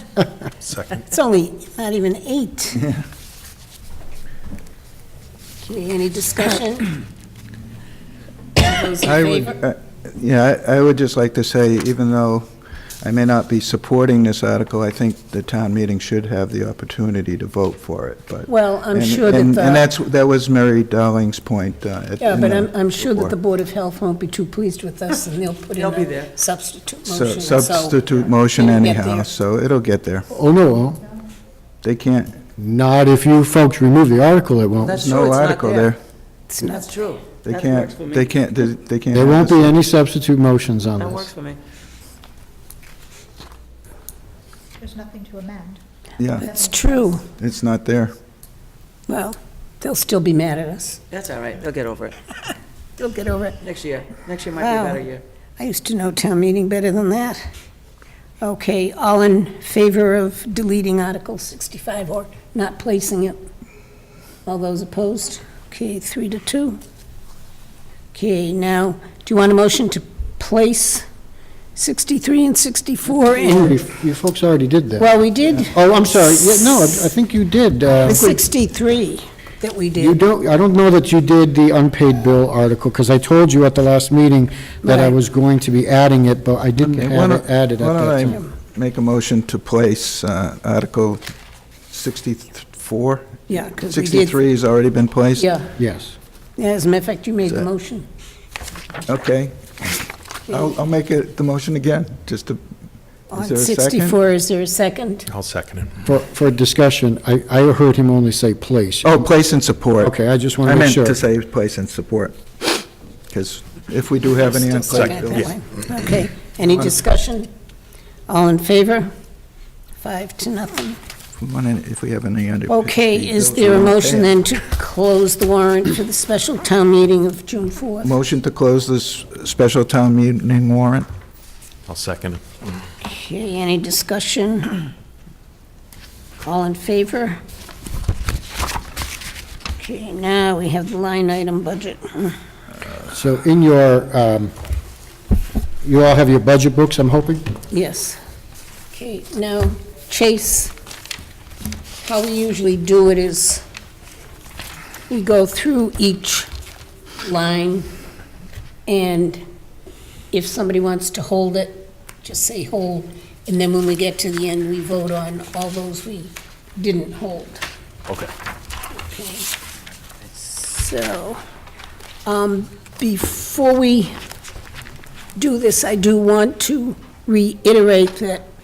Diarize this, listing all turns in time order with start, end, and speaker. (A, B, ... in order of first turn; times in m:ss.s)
0:00.6-0:01.0 A
0:01.0-0:02.9 B
0:05.6-0:07.0 B
0:08.6-0:09.6 B
0:09.0-0:12.5 C
0:13.0-0:23.3 C
0:18.5-0:19.9 B
0:22.2-0:29.3 B
0:25.8-0:26.3 D
0:27.0-0:30.3 C
0:30.3-0:31.0 E
0:31.8-0:32.4 C
0:32.6-0:35.0 E
0:34.8-0:35.9 D
0:35.0-0:36.0 C
0:36.5-0:36.9 B
0:36.6-0:38.3 D
0:37.4-0:39.8 C
0:39.1-0:41.3 E
0:41.0-0:41.6 D
0:46.2-0:46.6 C
0:46.4-0:47.2 B
0:47.4-0:48.1 C
0:49.1-0:51.0 B
0:51.1-0:52.2 D
0:53.0-0:53.6 B
0:53.6-0:55.2 D
0:54.6-0:55.0 B
0:55.6-0:57.4 B
0:58.4-1:03.4 B
1:04.4-1:06.8 B
1:08.1-1:11.0 B
1:11.7-1:13.8 B
1:13.3-1:18.4 E
1:15.0-1:15.8 B
1:18.0-1:20.2 B
1:20.0-1:28.4 E
1:24.8-1:25.2 B
1:26.8-1:31.2 C
1:31.9-1:35.5 C
1:33.5-1:34.4 B
1:35.4-1:35.7 B
1:35.8-1:36.1 E
1:36.6-1:38.1 B
1:39.1-1:42.6 C
1:43.3-1:45.3 B
1:43.3-1:44.2 C
1:45.3-1:46.0 A
1:46.0-1:49.2 E
1:49.0-1:50.1 C
1:50.0-1:51.2 E
1:50.6-1:52.4 C
1:53.3-1:55.5 C
1:54.6-1:57.5 B
1:54.9-1:55.5 A
1:58.3-1:59.1 B
2:00.0-2:01.0 B
2:01.4-2:04.3 C
2:02.7-2:08.1 B
2:08.0-2:11.1 C
2:11.9-2:12.6 A
2:13.0-2:14.8 B
2:16.4-2:17.4 B
2:19.8-2:22.4 B
2:23.1-2:24.5 E
2:25.8-2:27.5 E
2:27.7-2:28.2 B
2:28.9-2:30.7 B
2:32.0-2:33.6 B
2:35.1-2:36.5 B
2:37.2-2:37.9 B
2:38.9-2:39.4 B
2:40.3-2:47.6 B
2:48.1-2:48.3 A
2:49.0-2:49.5 B
2:50.3-2:51.4 B
2:52.2-2:54.1 B
2:55.4-2:58.5 B